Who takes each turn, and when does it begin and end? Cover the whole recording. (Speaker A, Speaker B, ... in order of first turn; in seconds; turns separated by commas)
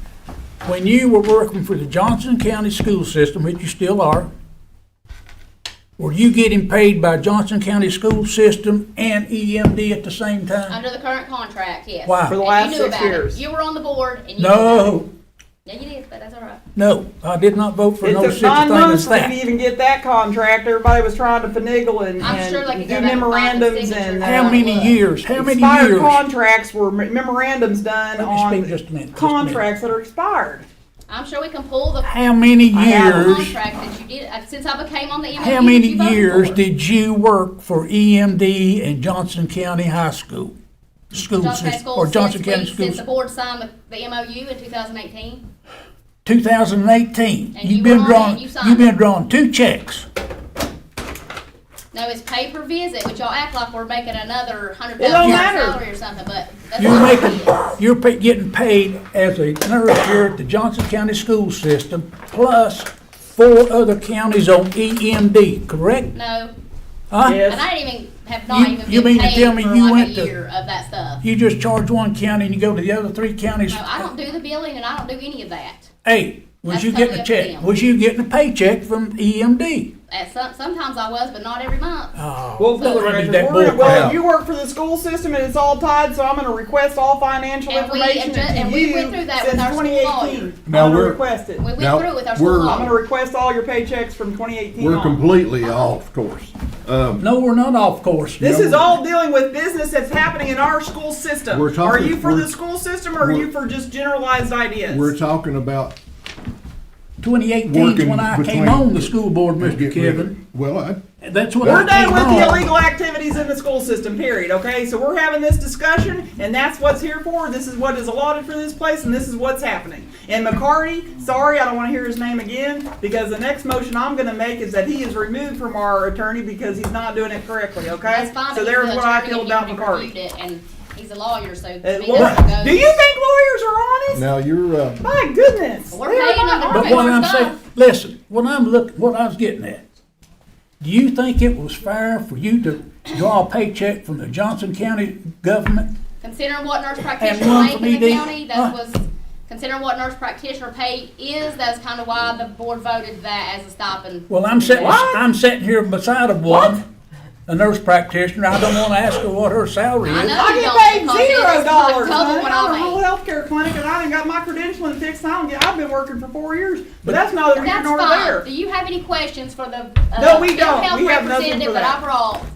Speaker A: 0.6-4.3, Speaker A: 6.0-10.8, Speaker B: 10.7-15.1, Speaker A: 12.0-12.4, Speaker C: 12.3-13.4, Speaker A: 14.4-15.1, Speaker B: 15.6-16.6, Speaker A: 16.7-19.3, Speaker C: 18.0-24.6, Speaker B: 22.2-25.0, Speaker A: 24.2-26.2, Speaker C: 25.3-30.6, Speaker A: 28.2-29.6, Speaker B: 31.1-32.1, Speaker A: 32.0-33.5, Speaker C: 32.7-33.4, Speaker B: 33.1-36.6, Speaker A: 35.4-40.5, Speaker A: 41.1-43.0, Speaker B: 41.3-45.4, Speaker A: 46.2-50.0, Speaker B: 47.5-48.9, Speaker B: 51.9-57.7, Speaker A: 55.0-55.5, Speaker C: 55.0-55.8, Speaker A: 56.8-66.1, Speaker B: 66.1-66.5, Speaker A: 67.1-67.4, Speaker C: 67.2-67.6, Speaker B: 67.4-71.2, Speaker A: 68.5-70.3, Speaker A: 71.2-73.9, Speaker B: 73.7-75.9, Speaker A: 76.0-79.9, Speaker B: 76.7-77.7, Speaker B: 80.1-82.1, Speaker A: 82.1-84.1, Speaker C: 82.6-91.7, Speaker D: 83.8-84.2, Speaker B: 87.7-90.5, Speaker D: 90.7-91.2, Speaker B: 91.6-92.9, Speaker D: 91.8-92.9, Speaker C: 92.7-95.2, Speaker D: 94.8-97.2, Speaker A: 97.2-98.5, Speaker C: 98.4-105.1, Speaker D: 98.4-98.8, Speaker D: 101.5-102.5, Speaker D: 103.2-103.5, Speaker D: 104.9-106.0, Speaker A: 107.2-110.3, Speaker D: 107.7-111.0, Speaker A: 111.2-112.7, Speaker D: 111.6-111.9, Speaker C: 111.6-130.1, Speaker B: 128.0-132.9, Speaker C: 131.8-134.2, Speaker A: 132.1-132.4, Speaker D: 134.1-135.0, Speaker C: 135.0-137.2, Speaker B: 135.9-137.6, Speaker A: 136.7-139.8, Speaker A: 140.8-145.9, Speaker B: 146.2-155.0, Speaker A: 147.2-148.7, Speaker A: 154.3-156.8, Speaker C: 154.8-155.2, Speaker C: 156.5-156.7, Speaker A: 157.5-160.4, Speaker B: 160.0-163.0, Speaker C: 160.3-168.4, Speaker B: 167.5-172.4, Speaker C: 170.2-172.0